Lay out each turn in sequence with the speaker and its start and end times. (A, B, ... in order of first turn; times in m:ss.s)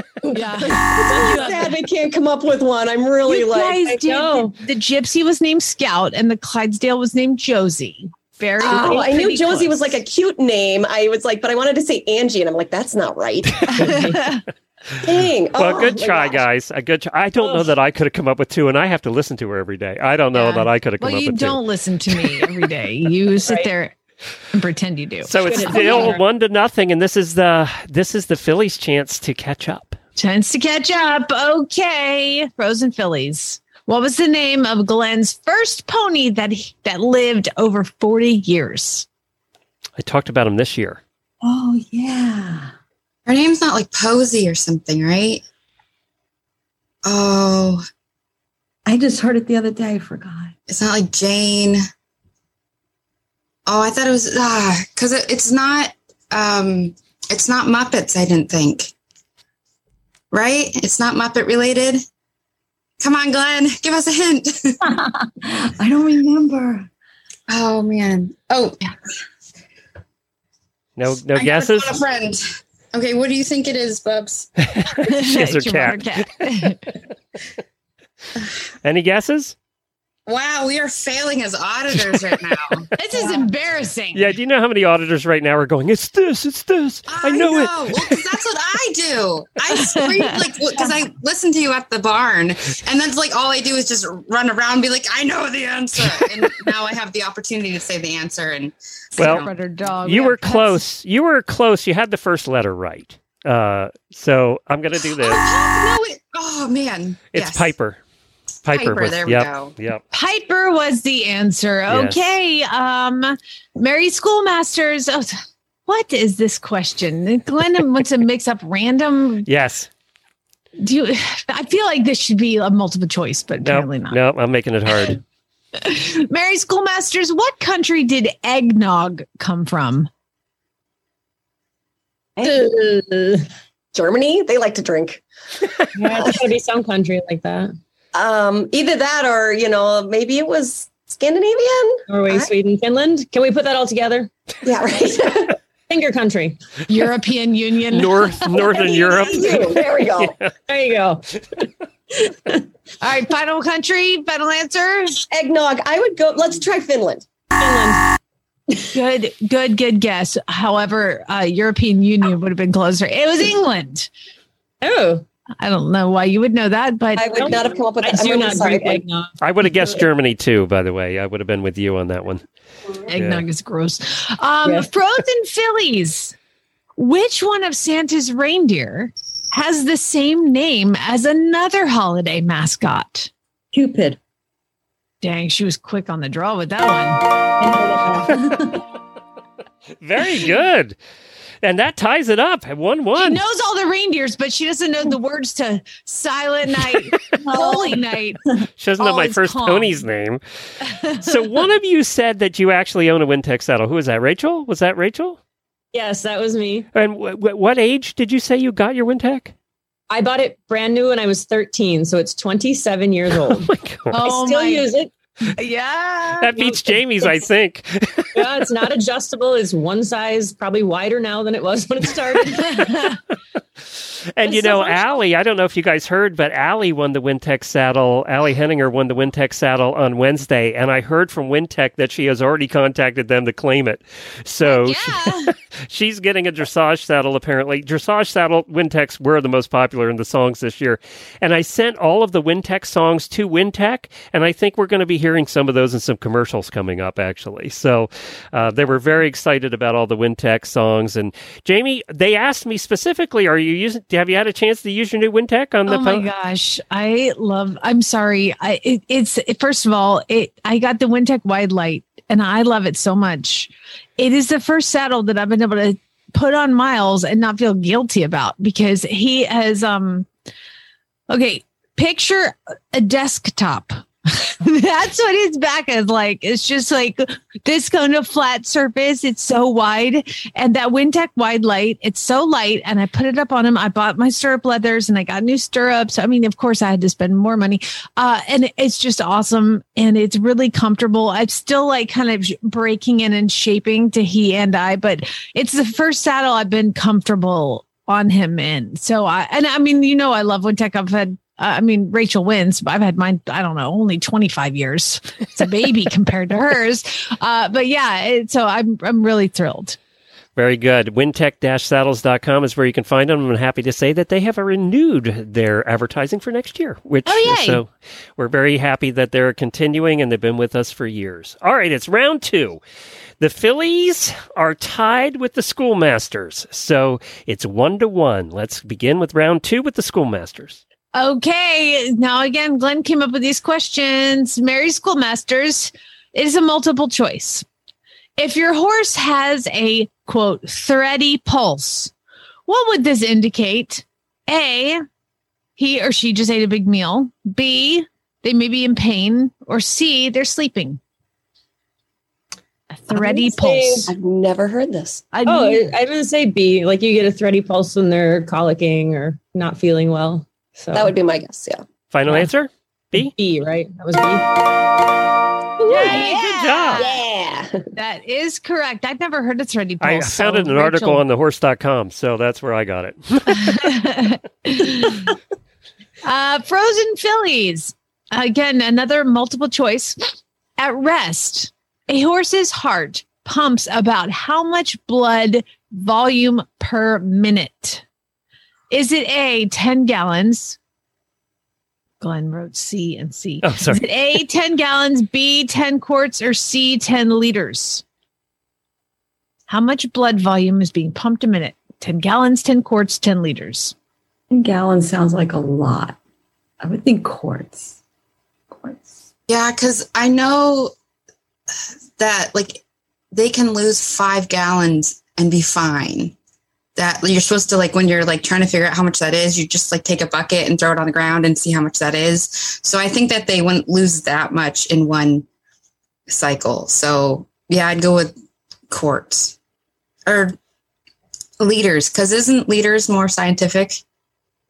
0:00.3-0:01.8 A
0:00.6-0:03.9 B
0:03.3-0:10.0 A
0:03.9-0:04.6 C
0:08.6-0:14.0 B
0:13.7-0:14.2 C
0:13.8-0:14.4 A
0:15.0-0:16.4 B
0:15.6-0:22.5 D
0:17.4-0:17.7 C
0:20.3-0:23.9 A
0:24.5-0:26.1 A
0:25.2-0:30.0 D
0:25.4-0:26.2 C
0:30.2-0:39.1 A
0:40.0-0:41.0 D
0:41.4-0:42.7 E
0:43.3-0:45.4 F
0:47.0-0:47.8 F
0:48.9-0:50.5 E
0:50.7-0:51.8 F
0:53.7-0:58.9 F
1:00.3-1:02.0 F
1:03.0-1:04.8 F
1:04.9-1:06.9 E
1:07.5-1:08.8 F
1:11.0-1:12.0 D
1:11.3-1:12.4 F
1:12.9-1:14.5 F
1:14.7-1:16.5 D
1:15.0-1:16.8 A
1:18.8-1:19.6 D
1:20.3-1:22.9 F
1:23.0-1:24.3 A
1:24.1-1:28.2 D
1:27.1-1:39.5 F
1:29.7-1:30.3 A
1:39.2-1:40.8 A
1:39.2-1:39.5 D
1:40.0-1:45.4 D
1:45.0-1:47.7 F
1:47.3-1:48.0 D
1:48.6-1:50.0 D
1:48.7-1:49.7 F
1:50.1-1:59.5 A
1:51.9-1:52.3 D
1:59.5-1:59.9 D
2:00.8-2:04.2 A
2:03.6-2:05.2 D
2:05.8-2:10.1 A
2:12.4-2:13.5 C
2:13.9-2:15.2 B
2:16.0-2:17.7 C
2:16.0-2:16.4 B
2:18.1-2:22.5 B
2:22.1-2:24.3 C
2:24.6-2:25.6 B
2:25.9-2:26.6 C
2:26.9-2:28.6 A
2:27.9-2:30.3 D
2:28.6-2:30.4 B
2:30.7-2:31.3 C
2:33.0-2:35.2 A
2:35.3-2:37.2 B
2:37.6-2:38.0 C
2:38.9-2:44.1 A
2:44.8-2:45.2 C
2:45.6-2:47.5 A
2:47.2-2:49.0 B
2:47.4-2:49.4 C
2:49.4-2:52.4 D
2:53.1-2:56.4 A
2:53.1-2:53.4 D
2:57.0-3:03.3 A
3:03.7-3:04.2 E
3:05.2-3:07.2 A
3:07.6-3:08.8 E
3:10.0-3:11.0 D
3:11.6-3:13.4 D
3:13.2-3:18.4 A
3:17.4-3:18.0 E
3:18.8-3:20.4 D
3:19.0-3:20.0 A
3:20.8-3:21.4 A
3:21.1-3:25.4 D
3:25.9-3:26.9 C
3:27.0-3:29.5 D
3:30.1-3:33.7 C
3:33.4-3:34.2 D
3:34.1-3:34.9 A
3:34.2-3:35.1 C
3:35.6-3:36.7 A
3:36.4-3:38.6 D
3:38.4-3:43.0 C
3:42.7-3:43.2 A
3:44.3-4:16.3 D
3:44.4-3:45.2 C
3:54.6-3:55.5 A
4:15.9-4:30.3 A
4:31.3-5:10.0 A
5:10.6-5:22.8 D
5:17.3-5:17.8 A
5:23.4-5:30.8 D
5:31.1-5:37.6 A
5:38.4-5:42.1 A
5:42.7-5:45.0 A
5:45.8-5:51.0 A
5:52.9-5:54.1 A
5:53.1-5:54.1 C
5:54.1-5:55.3 B
5:55.3-5:55.9 A
5:55.5-6:01.1 C
6:00.9-6:01.8 B
6:02.1-6:03.3 D
6:03.2-6:04.5 C
6:05.8-6:06.2 C
6:05.9-6:07.2 A
6:06.0-6:07.0 D
6:07.0-6:07.8 B
6:07.9-6:11.2 A
6:10.0-6:13.9 D
6:13.5-6:15.3 A
6:16.2-6:28.0 A
6:28.9-6:30.8 A
6:32.2-6:38.0 A
6:33.6-6:34.1 D
6:39.7-6:43.9 A
6:44.5-6:46.2 E
6:46.8-6:48.0 E
6:48.7-6:49.2 E
6:49.5-6:50.9 F
6:52.2-6:52.8 F
6:53.3-6:56.4 F
6:57.0-7:05.5 F
7:06.3-7:08.3 F
7:08.9-7:09.6 F
7:10.3-7:10.6 F
7:11.6-7:14.0 F